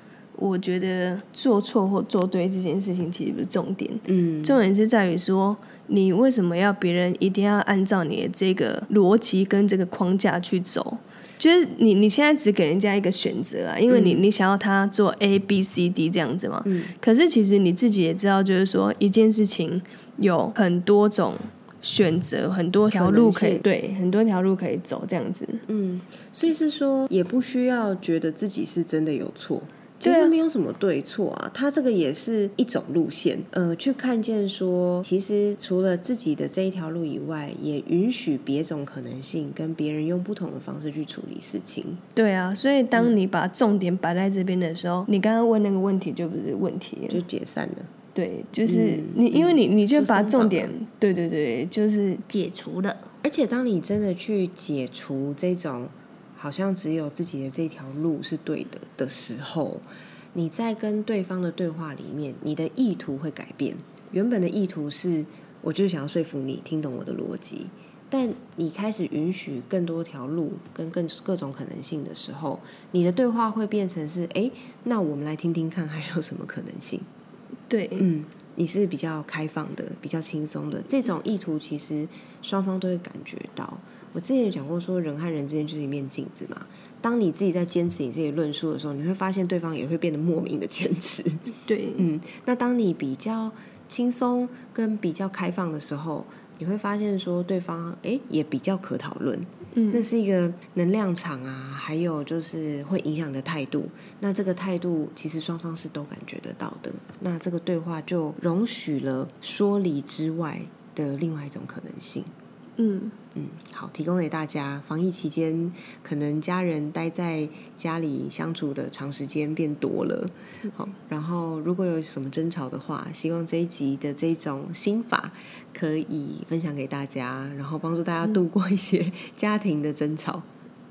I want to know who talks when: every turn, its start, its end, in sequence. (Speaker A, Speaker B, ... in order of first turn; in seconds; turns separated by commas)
Speaker A: 0.3-25.6, Speaker B: 4.1-4.6, Speaker B: 13.9-14.2, Speaker B: 16.6-16.9, Speaker B: 22.9-23.6, Speaker B: 25.7-42.0, Speaker A: 30.0-30.4, Speaker A: 42.1-47.2, Speaker B: 47.1-47.9, Speaker A: 48.1-53.1, Speaker B: 48.6-50.7, Speaker B: 53.2-77.1, Speaker A: 77.7-78.1, Speaker B: 78.0-112.3, Speaker A: 91.7-92.1, Speaker A: 99.7-100.1, Speaker A: 112.8-113.1, Speaker B: 113.3-130.5